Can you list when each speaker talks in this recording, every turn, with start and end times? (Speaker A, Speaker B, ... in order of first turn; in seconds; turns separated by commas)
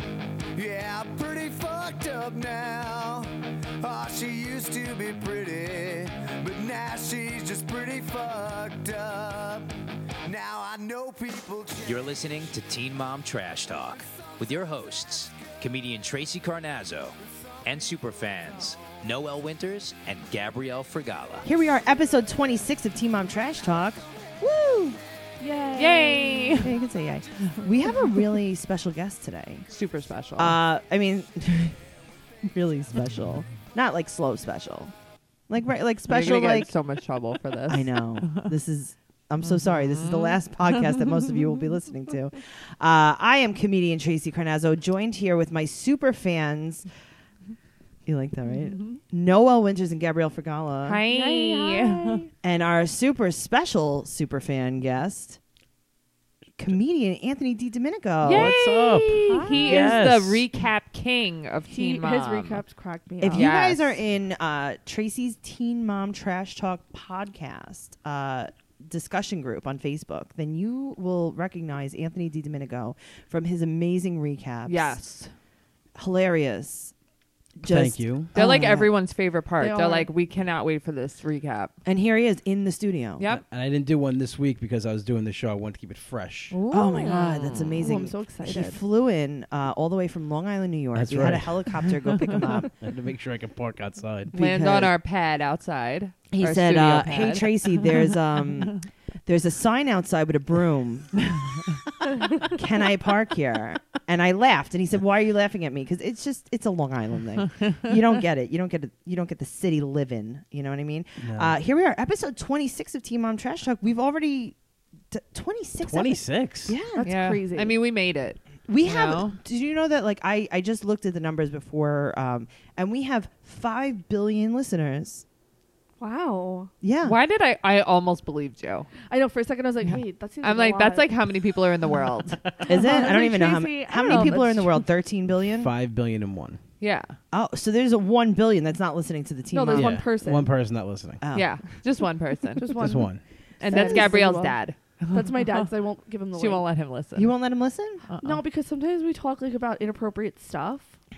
Speaker A: 0.6-9.7, Speaker A: 10.2-12.3, Speaker B: 11.8-21.5, Speaker A: 14.0-14.4, Speaker A: 18.2-19.0, Speaker C: 21.4-24.9, Speaker D: 25.4-26.6, Speaker E: 25.8-26.7, Speaker C: 26.6-29.7, Speaker E: 29.7-30.6, Speaker C: 30.4-31.8, Speaker C: 32.5-34.9, Speaker C: 35.5-36.7, Speaker E: 36.1-38.5, Speaker C: 37.7-46.9, Speaker E: 39.4-41.2, Speaker C: 48.1-51.0, Speaker E: 50.9-52.2, Speaker D: 51.1-52.3, Speaker C: 52.4-55.4, Speaker C: 56.6-58.6, Speaker E: 58.2-62.6, Speaker F: 58.3-60.4, Speaker D: 59.3-60.0, Speaker D: 61.7-63.6, Speaker C: 63.2-75.0, Speaker E: 63.3-64.0, Speaker E: 74.7-75.3, Speaker C: 76.0-76.9, Speaker C: 77.6-78.9, Speaker F: 77.6-78.3, Speaker E: 78.3-81.7, Speaker D: 79.6-80.1, Speaker C: 81.8-83.3, Speaker F: 83.3-86.6, Speaker E: 86.5-88.0, Speaker C: 86.7-92.7, Speaker D: 87.8-88.8, Speaker F: 91.0-91.8, Speaker F: 92.7-94.3, Speaker C: 94.3-94.9, Speaker E: 94.3-97.5, Speaker C: 96.3-101.2, Speaker C: 102.4-114.6, Speaker F: 111.2-111.5, Speaker C: 115.1-117.1, Speaker F: 115.8-116.8, Speaker D: 117.0-117.8, Speaker E: 117.0-119.4, Speaker C: 118.7-125.2, Speaker D: 126.0-126.7, Speaker C: 126.8-127.2, Speaker E: 127.0-128.9, Speaker D: 129.1-131.1, Speaker E: 130.4-132.4, Speaker D: 132.6-134.8, Speaker C: 132.7-135.7, Speaker F: 135.5-136.6, Speaker E: 136.8-137.2, Speaker C: 137.3-140.0, Speaker D: 139.5-140.5, Speaker F: 139.7-141.2, Speaker C: 141.2-141.6, Speaker E: 141.3-142.8, Speaker D: 142.6-144.6, Speaker F: 142.7-143.2, Speaker E: 143.6-145.7, Speaker C: 143.7-144.3, Speaker D: 145.1-146.6, Speaker E: 146.3-147.3, Speaker C: 147.2-148.1, Speaker E: 148.1-148.4, Speaker D: 148.2-150.9